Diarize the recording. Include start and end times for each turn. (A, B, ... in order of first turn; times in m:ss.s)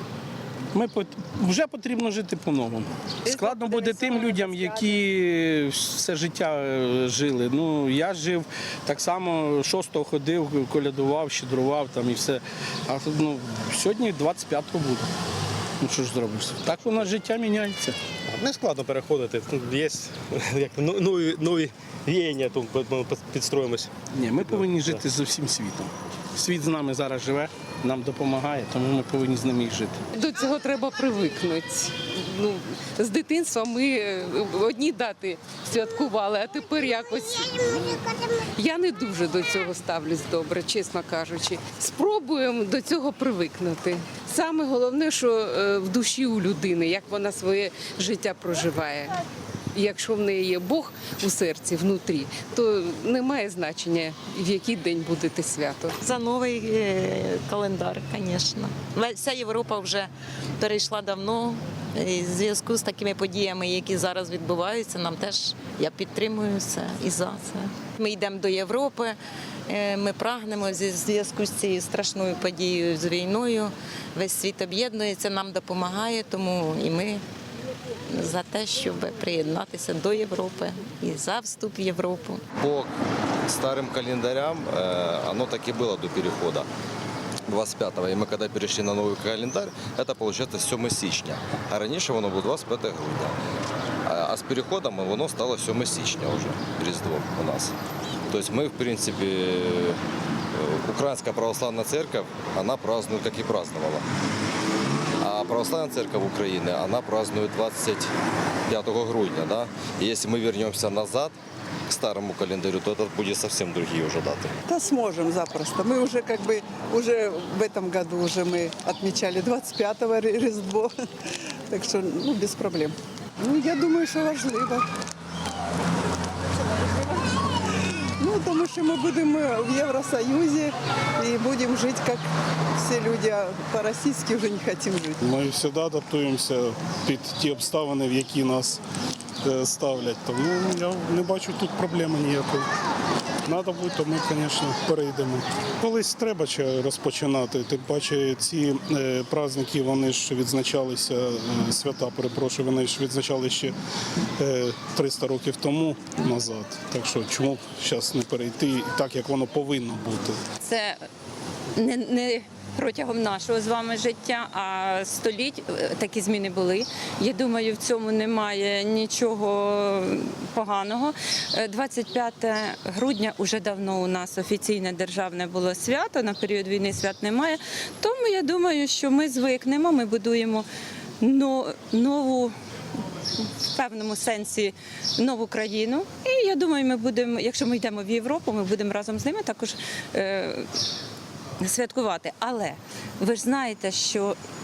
0:00.7-0:15.1 A
0:03.3-0:04.9 B
0:15.8-0:18.0 A
0:18.3-0:23.9 C
0:24.1-0:30.0 A
0:30.1-0:49.2 B
0:49.7-0:56.0 B
0:56.0-1:09.2 D
1:09.7-1:17.2 D
1:18.1-1:22.4 D
1:22.6-1:22.9 E
1:23.5-1:26.7 E
1:27.5-1:33.4 E
1:34.0-1:37.7 E
1:38.3-1:40.0 E
1:40.5-1:44.0 E
1:45.2-1:48.1 E
1:48.7-1:51.3 E
1:51.9-1:54.5 E
1:54.7-2:01.0 F
2:01.7-2:04.8 F
2:08.2-2:12.2 F
2:12.8-2:15.2 F
2:15.2-2:18.8 G
2:19.4-2:22.6 G
2:23.4-2:33.7 G
2:34.4-2:40.4 G
2:40.6-2:41.0 H
2:41.8-3:00.6 H
3:01.2-3:02.5 H
3:03.4-3:10.7 H
3:11.6-3:14.4 H